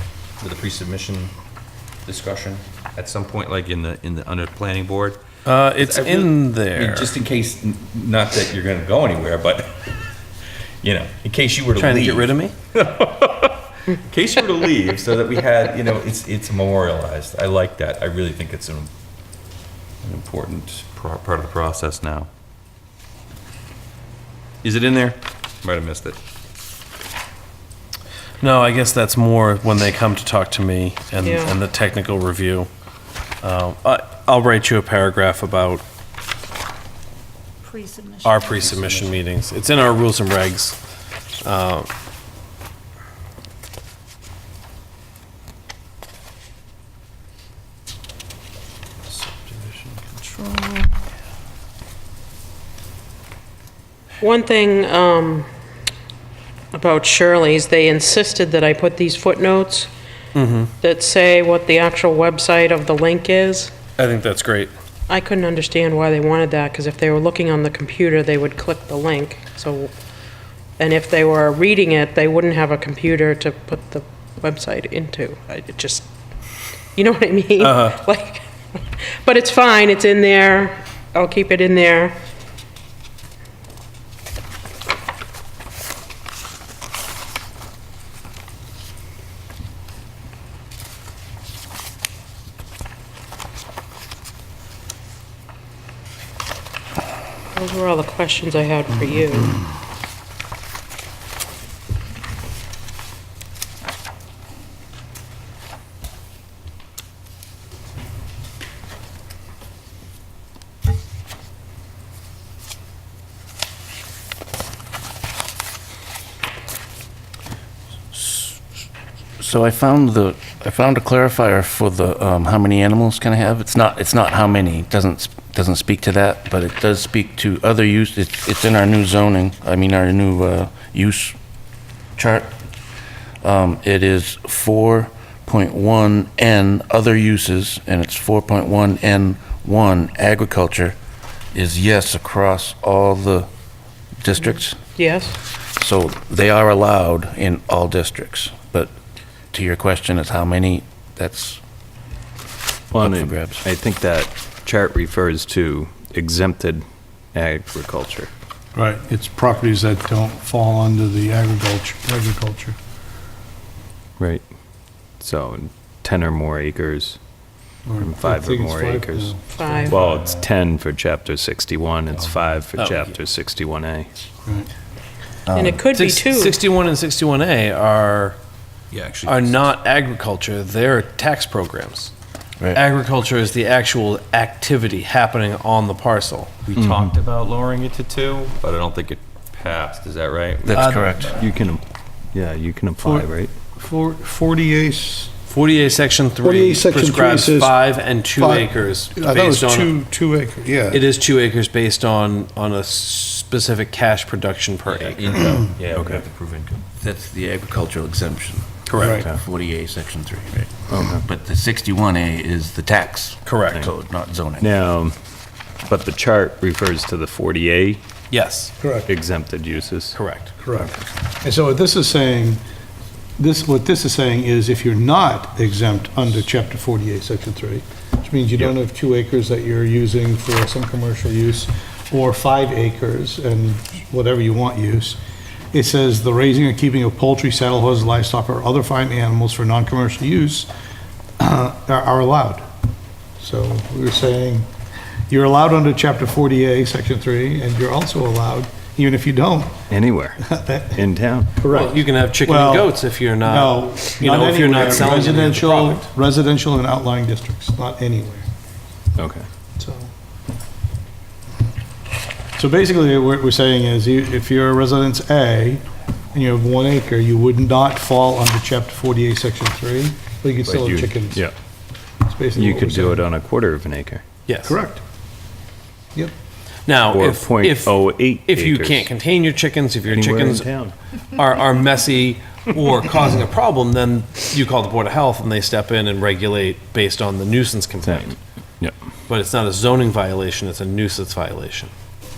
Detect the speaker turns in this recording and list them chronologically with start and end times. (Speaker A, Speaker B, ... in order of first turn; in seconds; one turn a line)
Speaker A: 0.4-1.3
Speaker A: 2.1-5.2
Speaker B: 5.5-7.2
Speaker A: 5.8-9.9
Speaker A: 10.8-18.9
Speaker B: 11.8-12.5
Speaker A: 20.0-22.3
Speaker A: 24.6-26.2
Speaker B: 28.4-32.7
Speaker C: 31.2-31.6
Speaker B: 33.4-35.8
Speaker B: 38.2-40.8
Speaker B: 41.4-41.9
Speaker C: 54.2-55.5
Speaker C: 56.7-59.9
Speaker B: 60.4-60.7
Speaker C: 60.8-63.7
Speaker B: 64.0-64.7
Speaker C: 65.1-69.9
Speaker C: 70.8-76.1
Speaker C: 77.0-82.1
Speaker B: 77.6-78.0
Speaker C: 97.5-99.6
Speaker D: 118.1-118.6
Speaker D: 119.4-131.3
Speaker D: 132.2-132.5
Speaker D: 133.4-141.0
Speaker D: 141.5-143.5
Speaker D: 144.2-144.8
Speaker C: 145.0-145.4
Speaker D: 145.8-148.9
Speaker D: 149.5-151.6
Speaker E: 152.9-158.3
Speaker D: 153.0-153.6
Speaker F: 158.8-162.8
Speaker E: 164.2-164.5
Speaker E: 165.2-167.2
Speaker F: 167.9-169.9
Speaker E: 168.0-169.4
Speaker C: 169.5-169.9
Speaker A: 169.9-170.5
Speaker E: 169.9-174.1
Speaker B: 172.8-173.1
Speaker D: 175.5-175.8
Speaker C: 175.6-176.6
Speaker B: 175.9-178.4
Speaker A: 178.9-179.6
Speaker B: 179.3-182.1
Speaker B: 182.7-186.5
Speaker A: 186.7-190.9
Speaker E: 186.8-187.1
Speaker D: 190.6-191.3
Speaker B: 190.7-191.3
Speaker E: 191.3-193.5
Speaker F: 193.0-195.3
Speaker B: 195.5-199.9
Speaker F: 196.4-197.8
Speaker F: 198.3-201.0
Speaker B: 200.9-205.6
Speaker A: 204.9-206.8
Speaker E: 205.9-206.2
Speaker D: 207.0-214.7
Speaker B: 208.9-209.2
Speaker F: 209.0-209.3
Speaker E: 209.0-209.4
Speaker E: 210.9-211.2
Speaker B: 213.4-213.8
Speaker E: 214.6-215.2
Speaker E: 215.9-218.0
Speaker B: 218.3-218.7
Speaker F: 218.8-219.1
Speaker E: 219.1-220.2
Speaker B: 220.1-220.5
Speaker F: 220.6-220.9
Speaker F: 221.4-222.6
Speaker F: 223.4-235.2
Speaker F: 235.7-240.7
Speaker F: 241.4-242.6
Speaker F: 243.4-244.7
Speaker F: 245.3-249.8
Speaker E: 249.9-250.4
Speaker F: 250.4-251.1
Speaker E: 250.9-251.6
Speaker F: 251.6-258.5
Speaker B: 251.7-256.1
Speaker E: 259.2-259.4
Speaker F: 259.8-260.1
Speaker F: 262.6-265.8
Speaker F: 266.3-271.4
Speaker E: 270.6-271.5
Speaker F: 272.3-273.3
Speaker E: 272.6-274.2
Speaker B: 274.5-274.8
Speaker F: 274.7-275.0
Speaker B: 276.9-280.7
Speaker E: 277.1-279.1
Speaker E: 280.1-280.9
Speaker B: 281.3-288.4
Speaker E: 288.0-289.0
Speaker B: 289.3-291.9